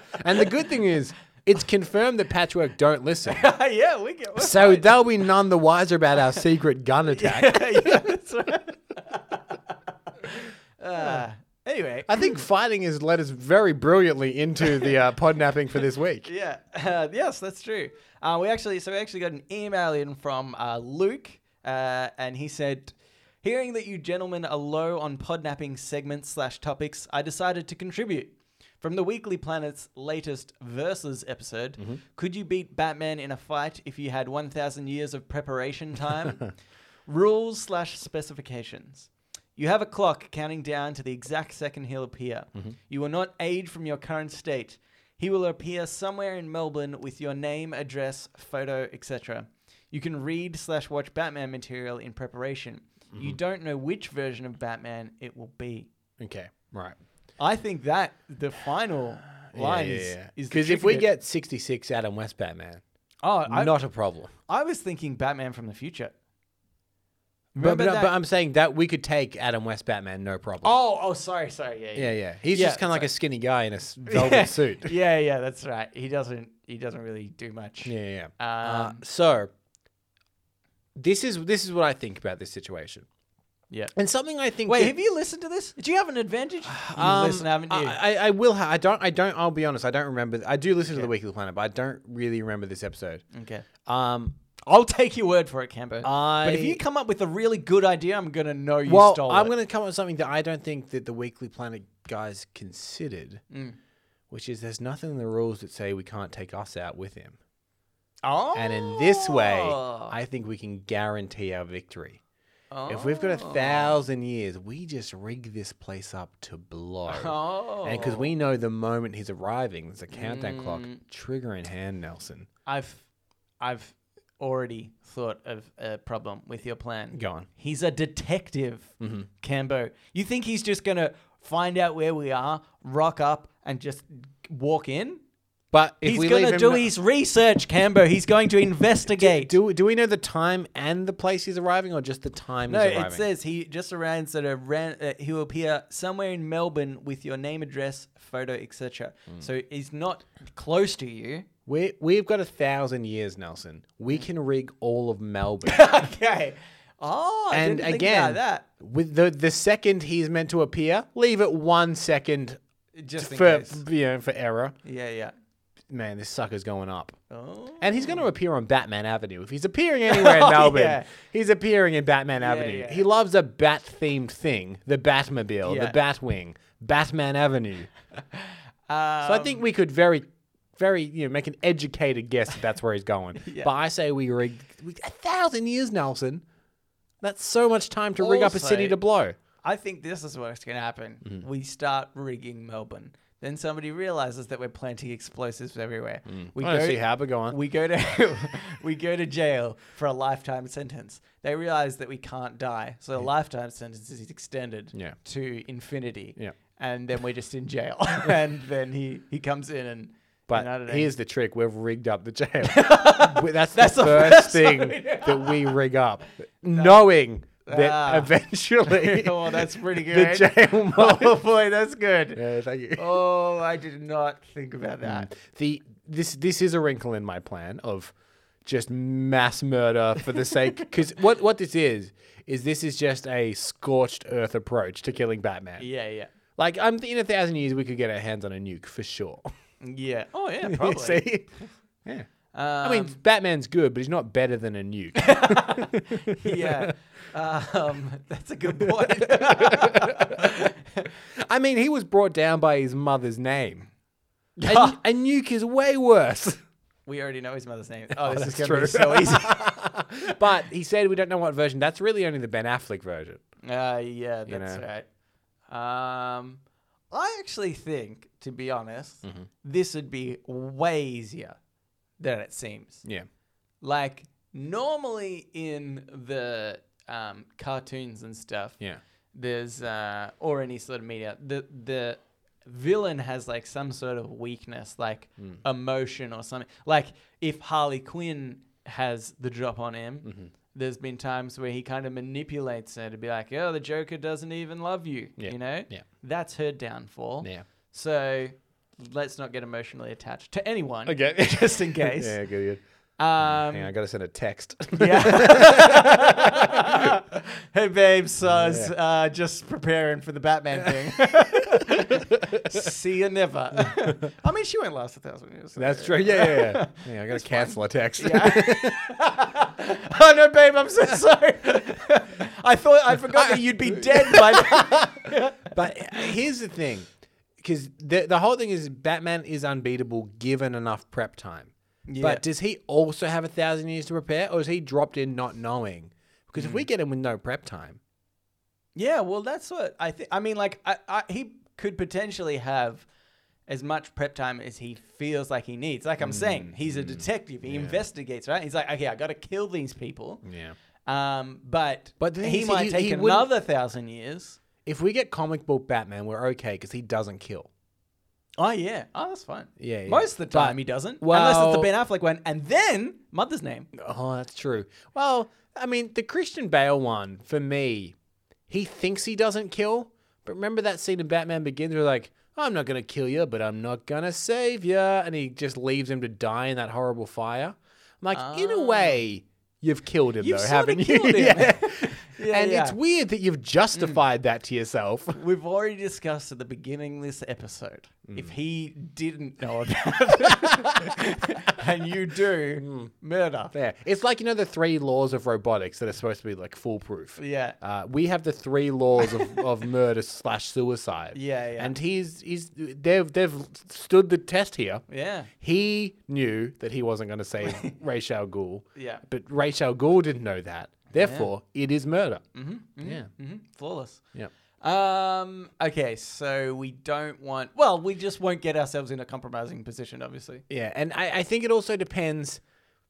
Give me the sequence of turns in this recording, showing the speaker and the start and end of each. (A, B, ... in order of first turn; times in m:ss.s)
0:00.2-0:03.5 A
0:03.3-0:05.0 B
0:04.4-0:08.1 A
0:07.1-0:09.6 B
0:10.2-0:12.4 B
0:12.1-0:16.3 A
0:16.2-0:36.5 B
0:37.1-0:55.9 B
0:53.1-0:53.4 A
0:56.2-0:57.0 A
0:57.4-1:01.1 B
0:59.5-1:02.8 A
1:03.2-1:03.8 B
1:03.5-1:04.3 A
1:04.5-1:06.1 B
1:07.6-1:08.1 B
1:07.6-1:10.7 A
1:10.6-1:13.1 B
1:12.0-1:14.9 A
1:14.1-1:19.0 B
1:17.8-1:19.5 A
1:21.0-1:23.1 A
1:23.9-1:24.9 A
1:24.7-1:28.0 B
1:26.7-1:33.2 A
1:33.3-1:33.7 B
1:33.8-1:34.4 A
1:34.6-1:39.5 B
1:36.0-1:36.8 A
1:38.9-1:43.4 A
1:43.5-1:43.8 B
1:44.3-1:47.4 A
1:48.2-1:50.2 B
1:48.5-1:52.2 A
1:52.7-1:54.0 B
1:52.9-2:02.5 A
1:57.1-1:58.3 B
2:00.1-2:01.0 B
2:02.7-2:03.0 B
2:03.6-2:15.2 B
2:07.1-2:07.5 A
2:09.0-2:09.3 A
2:15.7-2:16.9 A
2:16.0-2:19.6 B
2:19.1-2:23.2 A
2:22.7-2:31.5 B
2:31.7-2:35.8 A
2:35.6-2:38.7 B
2:37.5-2:42.6 A
2:43.0-2:43.8 B
2:43.2-2:44.8 A
2:44.8-2:45.3 B
2:45.9-2:47.2 A
2:47.3-2:48.3 B
2:47.8-2:57.9 A
2:50.1-2:51.1 B
2:52.4-2:53.0 B
2:55.6-2:56.0 B
2:58.3-2:59.6 B
2:59.2-3:00.2 A
3:00.8-3:06.4 A
3:03.4-3:03.7 B
3:07.2-3:09.4 A
3:08.2-3:09.0 B
3:09.6-3:31.1 B
3:16.3-3:17.6 A
3:30.5-3:41.4 A
3:32.6-3:35.8 B
3:36.7-3:37.0 B
3:37.6-3:38.3 B
3:38.9-3:42.4 B
3:42.4-3:43.1 A
3:43.0-3:45.3 B
3:45.0-3:48.1 A
3:48.6-3:55.9 A
3:55.8-3:56.3 B
3:56.6-3:59.5 A
3:59.8-4:01.7 B
4:00.6-4:01.5 A
4:02.5-4:03.2 B
4:02.8-4:06.9 A
4:05.2-4:11.1 B
4:08.8-4:10.5 A
4:11.4-4:13.9 A
4:14.6-4:15.0 B
4:14.6-4:16.6 A
4:17.1-4:19.8 B
4:18.2-4:23.4 A
4:23.6-4:25.0 B
4:24.5-4:24.8 A
4:25.7-4:31.6 B
4:32.2-4:33.0 B
4:33.8-4:38.8 B
4:39.3-5:02.4 B
4:50.2-4:50.5 A
4:55.4-4:56.0 A
5:01.1-5:02.8 A
5:03.2-5:03.9 B
5:03.4-5:07.2 A
5:05.0-5:26.3 B
5:08.4-5:08.9 A
5:10.9-5:12.8 A
5:13.8-5:14.2 A
5:15.8-5:19.2 A
5:23.3-5:38.0 A
5:32.1-5:32.4 B
5:36.6-5:36.9 B
5:39.0-5:43.1 B
5:43.7-5:50.4 B
5:46.2-5:48.0 A
5:50.4-5:50.8 A
5:51.1-5:54.6 B
5:52.2-5:53.5 A
5:54.8-5:57.7 A
5:58.6-6:03.9 B
5:59.8-6:01.9 A
6:03.9-6:08.2 A
6:08.7-6:25.4 A
6:18.3-6:19.2 B
6:20.4-6:23.0 B
6:23.9-6:24.2 B
6:25.3-6:33.7 B
6:28.3-6:28.5 A
6:30.4-6:31.2 A
6:32.8-6:33.1 A
6:33.7-6:45.0 A
6:37.4-6:37.8 B
6:39.3-6:39.6 B
6:41.3-6:41.9 B
6:45.1-6:45.5 B
6:45.6-6:52.4 A
6:47.6-6:47.9 B
6:49.0-6:49.2 B
6:51.1-6:51.5 B
6:52.5-6:54.2 B
6:53.0-6:53.3 A
6:54.8-7:00.6 B
7:00.7-7:02.6 A